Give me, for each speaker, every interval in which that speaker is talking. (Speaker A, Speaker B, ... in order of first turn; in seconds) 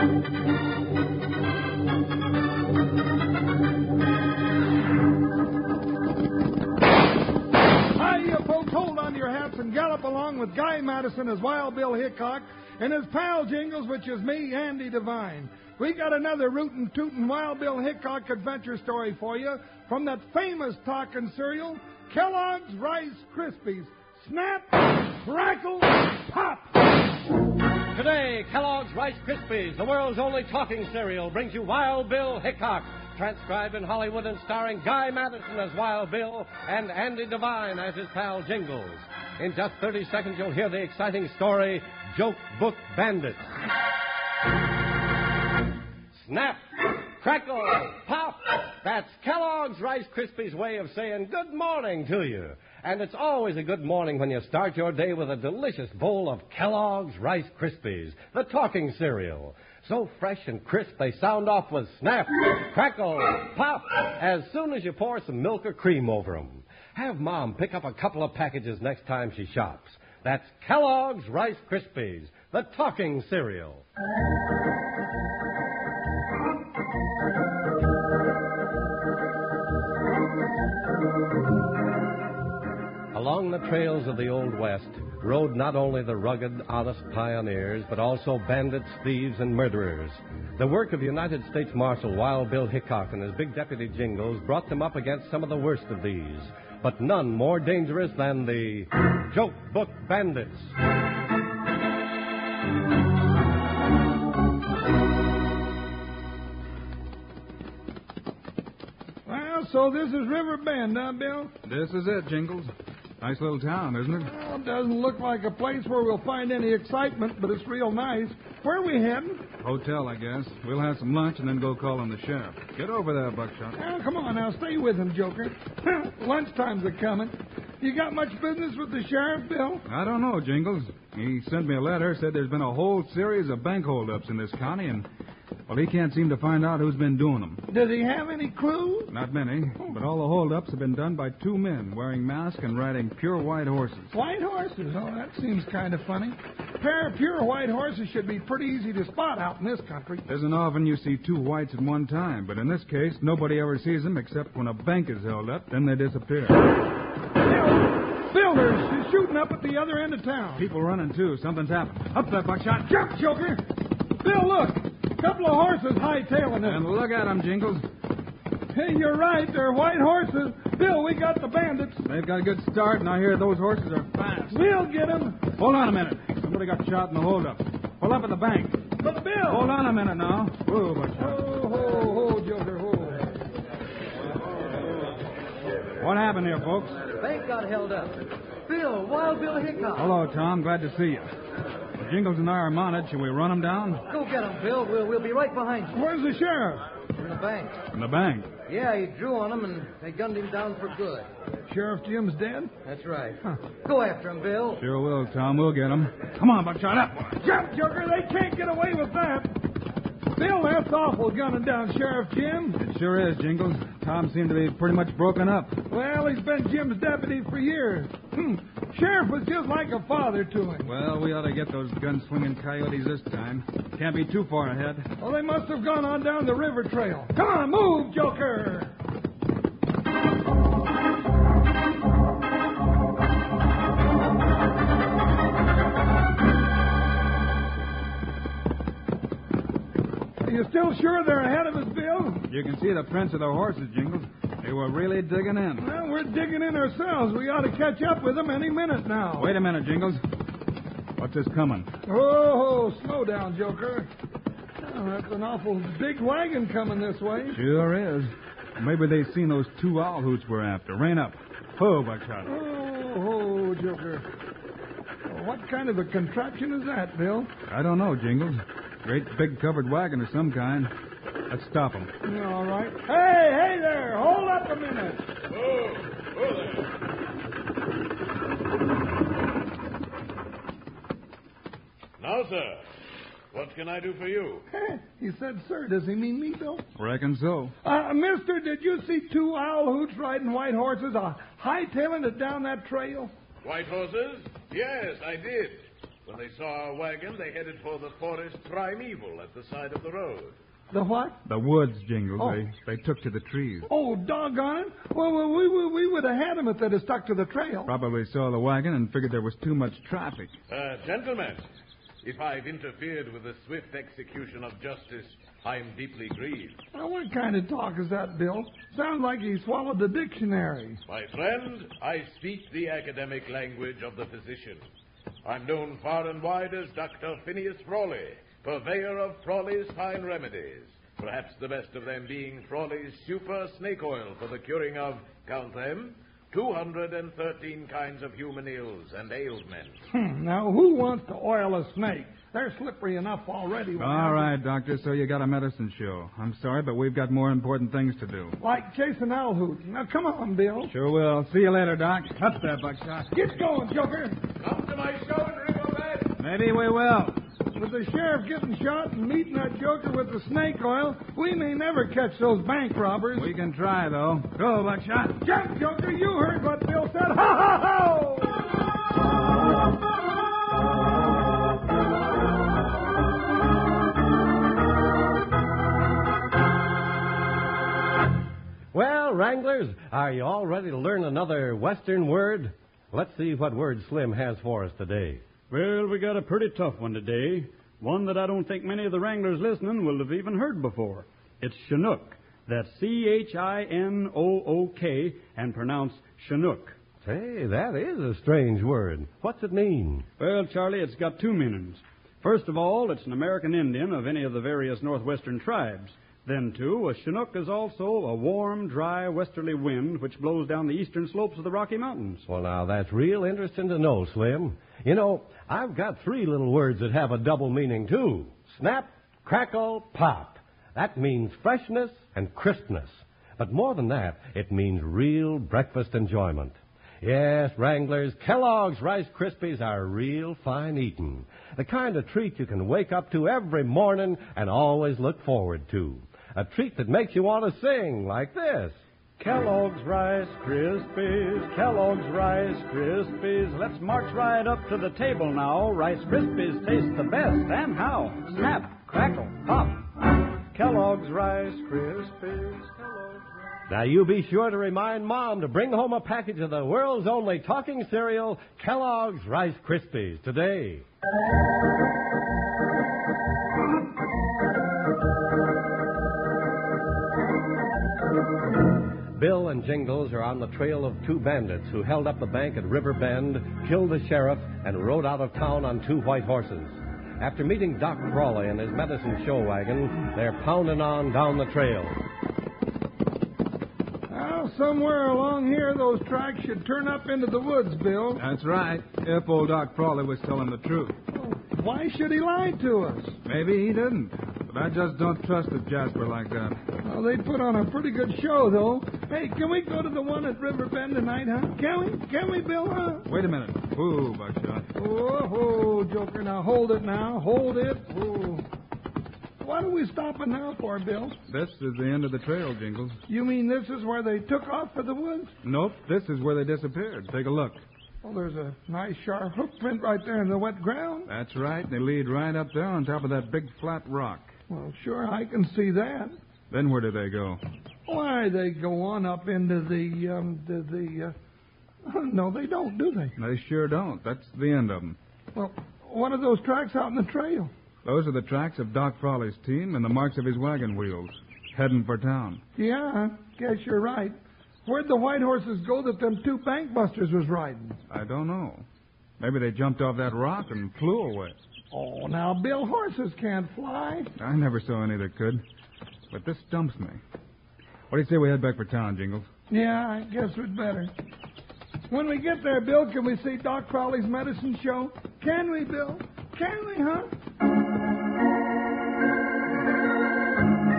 Speaker A: 7.9-26.7, 109.2-111.5, 114.2-119.4, 123.8-129.8, 137.7-139.1, 144.1-150.2, 157.4-160.7, 162.9-166.8, 168.7-172.0, 174.5-175.5, 179.0-179.7, 181.2-183.3, 195.9-196.8, 201.7-202.7, 207.4-209.7, 210.3-212.8, 215.9-220.9, 225.2-228.9, 240.4-242.5, 245.8-249.5, 252.1-254.1, 254.8-257.6, 262.4-264.2, 265.2-267.5, 272.2-275.3, 284.7-286.8, 287.8-293.3, 300.9-301.4, 303.9-307.9, 316.9-321.0, 340.1-344.5, 348.6-350.9, 353.3-354.4, 357.7-363.5, 365.4-368.7, 484.3-488.4, 491.3-493.4, 497.0-503.3, 504.9-508.6, 509.6-511.4, 513.3-515.5, 518.2-521.3, 524.7-526.4, 528.1-531.3, 532.0-533.4, 535.5-537.7, 542.8-548.0, 551.9-554.3, 559.7-561.1, 562.1-567.3
Speaker B: 27.9-43.5, 46.1-73.8, 83.1-100.7, 378.9-385.4, 397.2-400.2, 412.5-439.0, 453.9-461.0, 469.3-482.1
Speaker C: 111.6-114.3, 119.6-123.8, 129.9-135.1, 135.7-137.6, 139.1-144.1, 150.3-156.6, 160.6-163.0, 166.6-167.8, 172.0-174.7, 175.5-178.8, 179.5-181.4, 186.0-187.0, 189.9-191.3, 192.0-194.0, 197.9-198.5, 204.8-207.4, 212.8-215.8, 220.8-225.1, 242.5-245.9, 249.4-250.2, 251.2-251.9, 257.5-262.5, 267.7-270.9, 271.5-272.1, 286.9-287.7, 301.4-303.9, 307.9-310.5, 344.0-348.6, 350.9-353.3, 356.4-357.4, 363.3-365.4, 488.4-491.2, 493.4-496.8, 503.2-504.9, 511.5-513.2, 515.6-517.8, 521.3-524.5, 526.7-527.6, 533.4-535.2, 538.0-542.6, 548.1-548.8, 549.4-551.6, 554.4-555.6, 556.3-557.2, 558.1-559.5
Speaker D: 187.2-190.1, 194.1-196.0, 197.1-197.8, 198.7-201.3, 202.8-204.8
Speaker E: 275.5-276.9, 282.2-282.9, 283.5-284.6, 293.6-300.6, 310.7-311.6, 312.2-316.8, 321.1-324.9, 325.4-339.9, 354.6-356.3
Speaker F: 385.7-397.0, 400.4-412.4, 439.4-450.1, 450.7-453.4